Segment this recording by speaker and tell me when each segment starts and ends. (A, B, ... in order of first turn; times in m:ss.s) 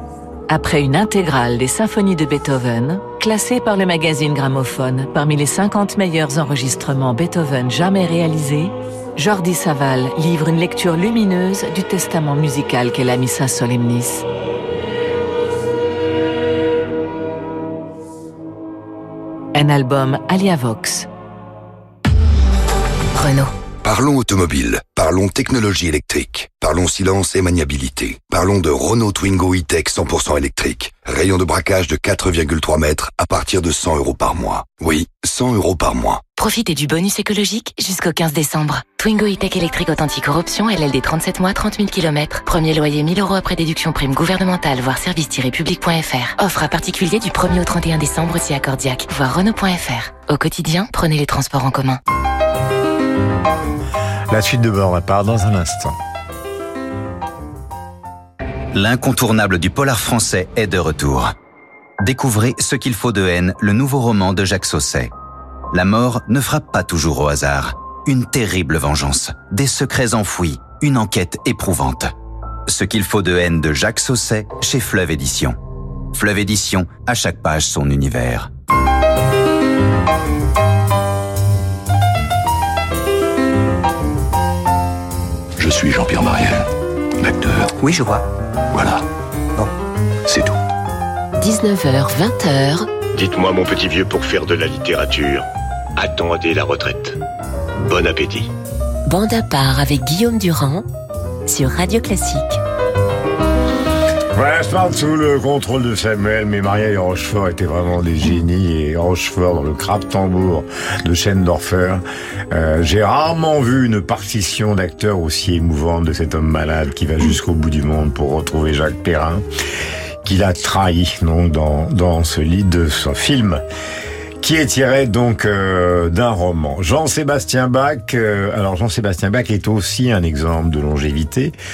0:00.5-0:14.2 A
0:19.5-0:21.1 A
0:23.8-0:36.2 B
0:36.4-0:52.0 C
0:54.3-0:56.0 D
0:58.7-1:01.3 E
1:02.0-1:05.1 E
1:05.7-1:12.1 E
1:12.7-1:15.6 E
1:16.1-1:18.5 E
1:25.6-1:26.7 F
1:27.2-1:27.7 F
1:28.7-1:29.0 F
1:30.3-1:30.6 F
1:31.4-1:32.9 G
1:33.1-1:37.2 H
1:37.8-1:38.5 H
1:39.0-1:40.8 G
1:41.5-1:42.6 G
1:44.3-1:59.4 D
2:00.2-2:03.6 D
2:04.4-2:11.5 D